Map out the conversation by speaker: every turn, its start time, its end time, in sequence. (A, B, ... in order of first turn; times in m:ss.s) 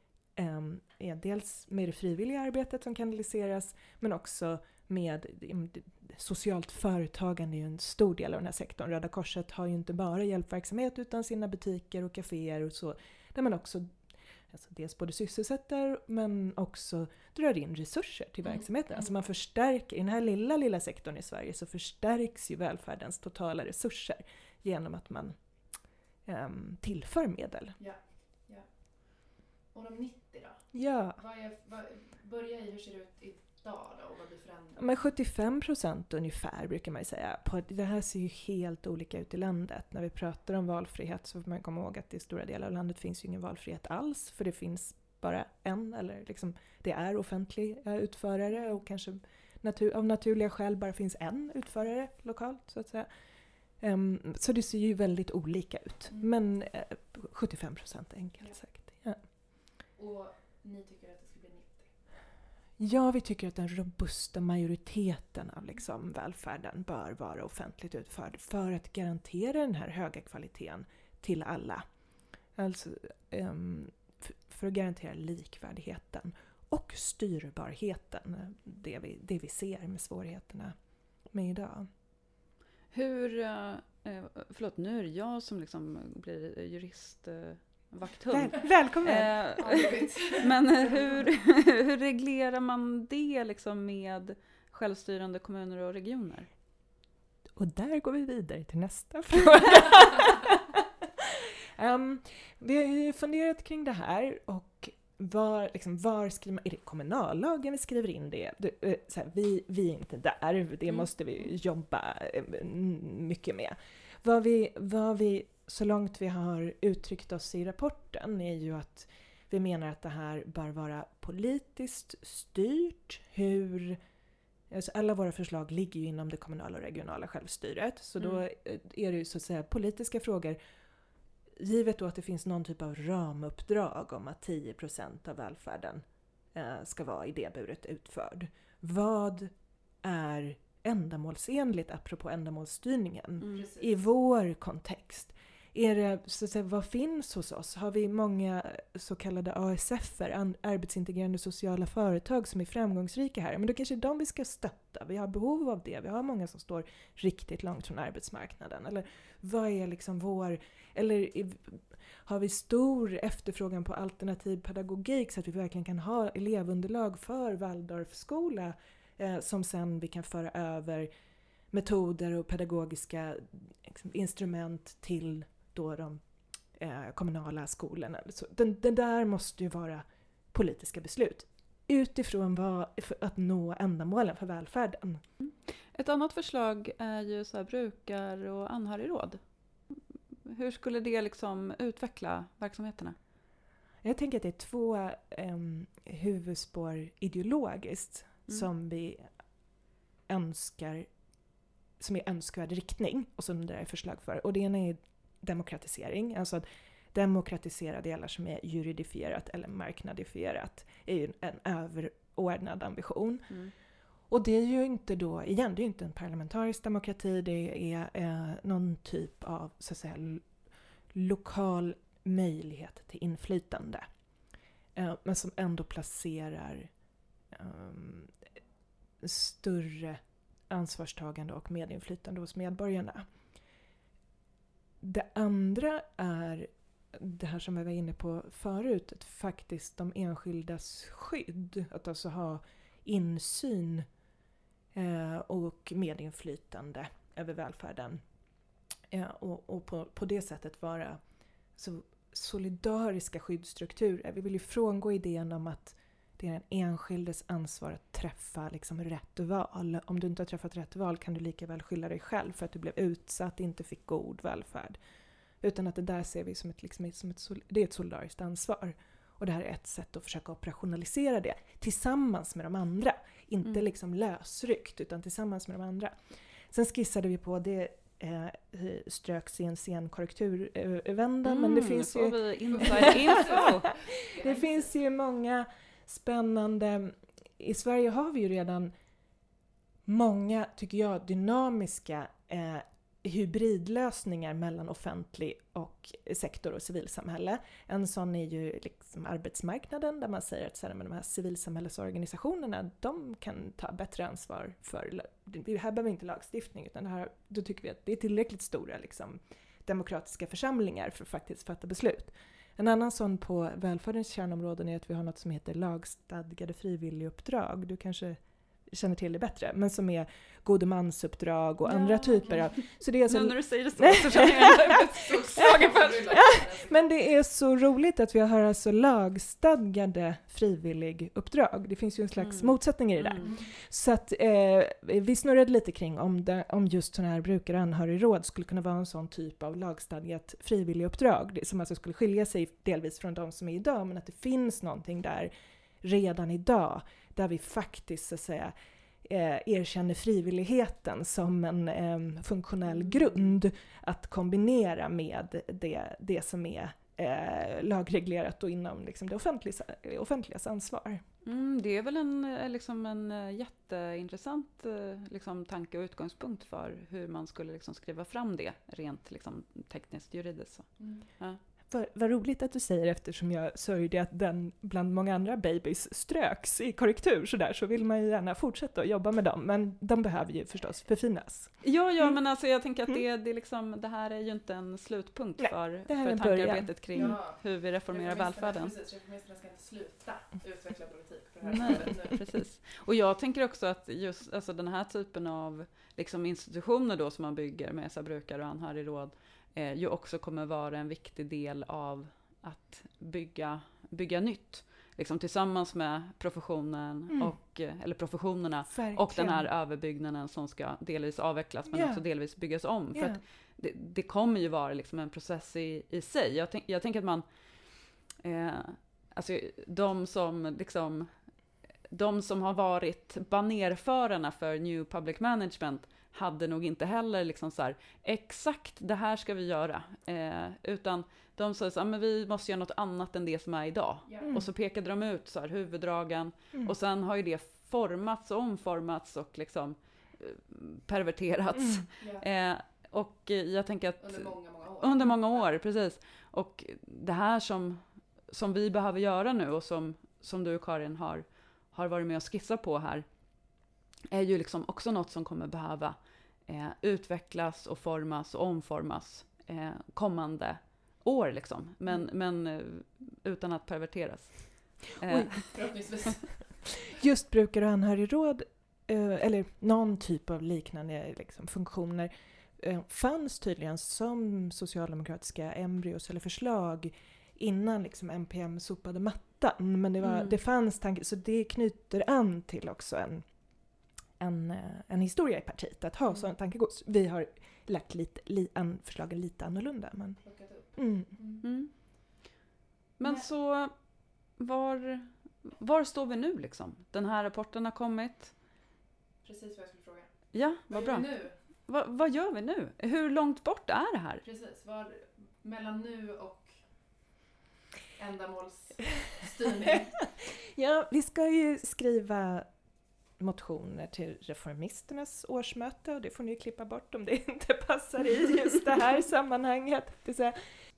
0:00.4-0:13.9 A
0:14.5-0:25.4 A
0:26.3-0:27.8 A
0:27.8-0:28.7 B
0:29.7-0:30.6 B
0:30.7-0:31.2 A
0:31.2-0:35.0 B
0:34.8-0:53.1 A
0:53.8-0:59.2 A
1:00.0-1:01.9 B
1:02.8-1:11.9 A
1:12.6-1:20.8 A
1:21.3-1:21.9 A
1:22.9-1:36.5 C
1:28.3-1:29.3 A
1:29.6-1:31.2 B
1:37.6-2:04.0 A
2:04.7-2:10.6 A
2:11.6-2:51.1 A
2:23.5-2:23.9 B
2:51.7-2:56.2 A
2:56.8-3:05.2 A
3:05.4-3:09.4 C
3:10.5-3:13.2 C
3:14.0-3:19.3 A
3:20.3-3:21.1 A
3:22.0-3:33.6 A
3:34.3-3:40.5 A
3:41.1-3:44.1 A
3:45.0-3:46.9 A
3:47.5-3:48.4 A
3:49.2-3:53.3 A
3:55.0-4:04.1 A
4:04.9-4:08.2 A
4:09.1-4:11.2 A
4:11.8-4:25.0 A
4:25.6-4:48.9 A
4:41.4-4:43.9 C
4:42.7-4:44.9 B
4:50.0-5:45.5 A
5:21.8-5:26.2 C
5:25.1-5:27.1 B
5:32.4-5:33.4 C
5:33.4-5:33.7 B
5:46.0-6:01.2 A
5:53.0-5:53.5 C
6:01.4-6:11.6 C
6:11.0-6:11.3 B
6:11.9-6:22.4 A
6:21.8-6:28.9 C
6:25.6-6:27.4 A
6:27.1-6:32.4 B
6:31.6-6:57.4 C
6:47.3-6:47.6 A
6:48.9-6:49.7 A
6:51.9-6:52.2 A
6:53.2-6:53.4 A
6:58.3-7:01.3 C
7:02.1-7:33.3 C
7:21.8-7:22.0 A
7:22.2-7:22.4 B
7:24.2-7:25.7 B
7:34.3-7:45.7 C
7:45.3-7:45.6 A
7:45.7-7:46.6 B
7:47.1-8:03.5 A
8:00.2-8:00.6 C
8:04.4-8:10.4 A
8:10.4-8:11.6 B
8:10.9-8:11.3 A
8:11.6-8:11.9 C
8:13.2-8:13.9 C
8:14.6-8:18.5 C
8:19.4-8:20.3 B
8:20.5-8:24.4 C
8:20.9-8:21.6 B
8:24.4-8:26.8 B
8:28.2-8:30.1 B
8:30.4-8:32.7 A
8:33.4-8:40.6 A